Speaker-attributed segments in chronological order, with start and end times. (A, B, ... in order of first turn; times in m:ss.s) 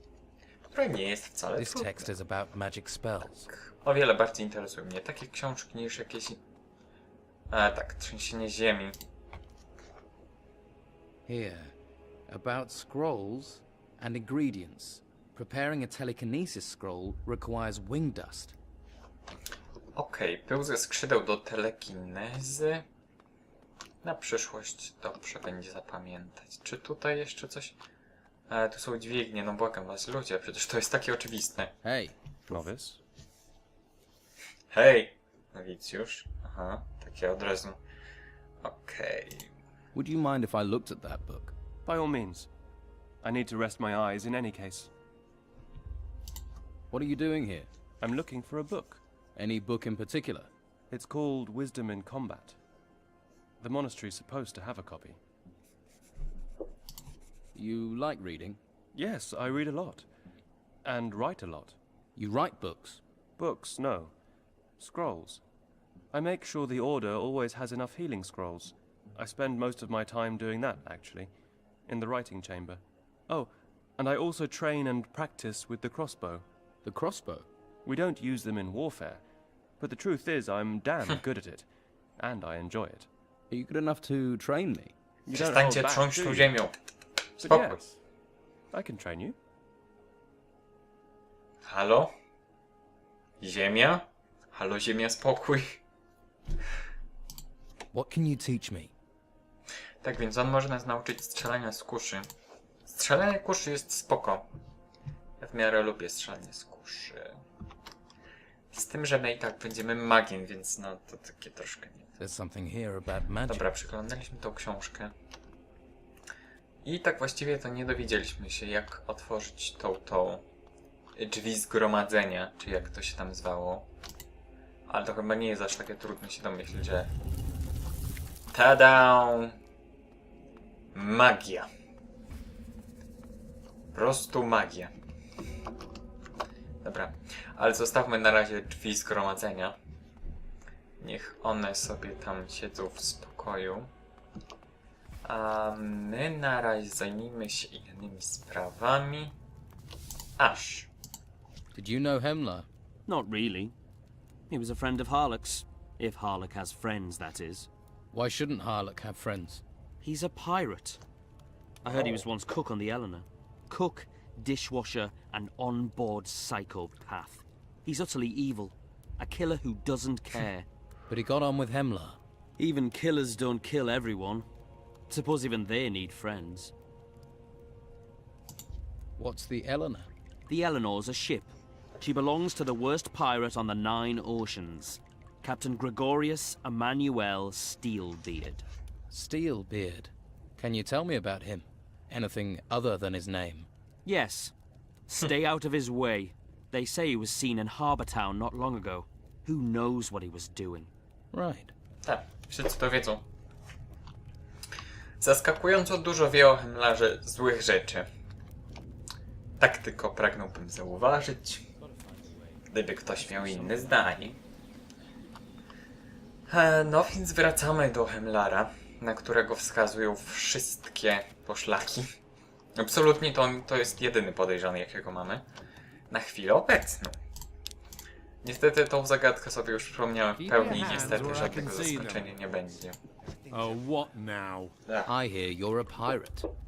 0:00.7-0:02.1 A
0:01.6-0:03.5 B
0:03.5-0:06.4 A
0:07.5-0:09.0 A
0:11.3-0:11.7 B
0:12.3-0:18.6 B
0:20.0-0:22.8 A
0:24.0-0:27.8 A
0:28.5-0:31.7 A
0:31.8-0:32.6 B
0:32.5-0:33.0 C
0:34.7-0:37.8 A
0:38.6-0:39.5 A
0:39.9-0:41.5 B
0:41.9-0:42.5 C
0:43.2-0:44.9 C
0:46.9-0:47.7 B
0:48.0-0:49.0 C
0:49.4-0:50.5 B
0:50.9-0:52.6 C
0:53.6-0:55.2 C
0:57.6-0:58.6 B
0:59.0-1:00.1 C
1:00.8-1:01.8 C
1:02.2-1:03.0 B
1:03.4-1:04.1 C
1:04.8-1:05.4 C
1:06.1-1:11.3 C
1:11.9-1:16.4 C
1:16.8-1:17.5 B
1:17.8-1:19.2 C
1:19.8-1:21.7 C
1:22.2-1:23.1 C
1:23.5-1:24.9 B
1:25.3-1:26.5 C
1:25.3-1:26.8 A
1:27.4-1:27.8 A
1:27.4-1:28.0 C
1:28.7-1:29.4 C
1:31.6-1:32.1 A
1:33.4-1:35.8 A
1:37.9-1:38.9 B
1:40.0-1:42.3 A
1:42.9-1:44.5 A
1:45.4-1:47.4 A
1:48.7-1:52.1 A
1:52.2-1:53.7 B
1:53.5-1:55.1 A
1:56.8-2:00.4 A
2:01.2-2:03.9 A
2:04.9-2:07.1 A
2:08.5-2:09.6 A
2:10.9-2:11.7 A
2:13.9-2:14.9 A
2:16.8-2:19.8 A
2:21.0-2:23.9 A
2:25.2-2:29.4 A
2:30.4-2:30.9 A
2:31.7-2:32.7 B
2:33.1-2:33.8 D
2:34.5-2:37.7 D
2:38.1-2:39.6 B
2:40.0-2:41.0 D
2:41.8-2:50.7 D
2:51.1-2:52.2 B
2:52.6-2:54.5 D
2:55.1-2:56.7 D
2:59.2-3:00.1 B
3:00.5-3:08.7 D
3:09.1-3:13.7 B
3:14.0-3:14.5 D
3:15.1-3:20.9 D
3:21.3-3:21.7 B
3:22.0-3:23.2 A
3:25.2-3:28.1 A
3:29.6-3:31.7 A
3:31.9-3:32.4 D
3:32.7-3:34.4 A
3:33.5-3:34.0 D
3:36.5-3:42.1 A
3:42.8-3:45.4 A
3:46.1-3:47.2 A
3:48.4-3:53.0 A
3:50.4-3:52.3 E
3:53.5-3:54.7 E
3:55.1-3:56.5 B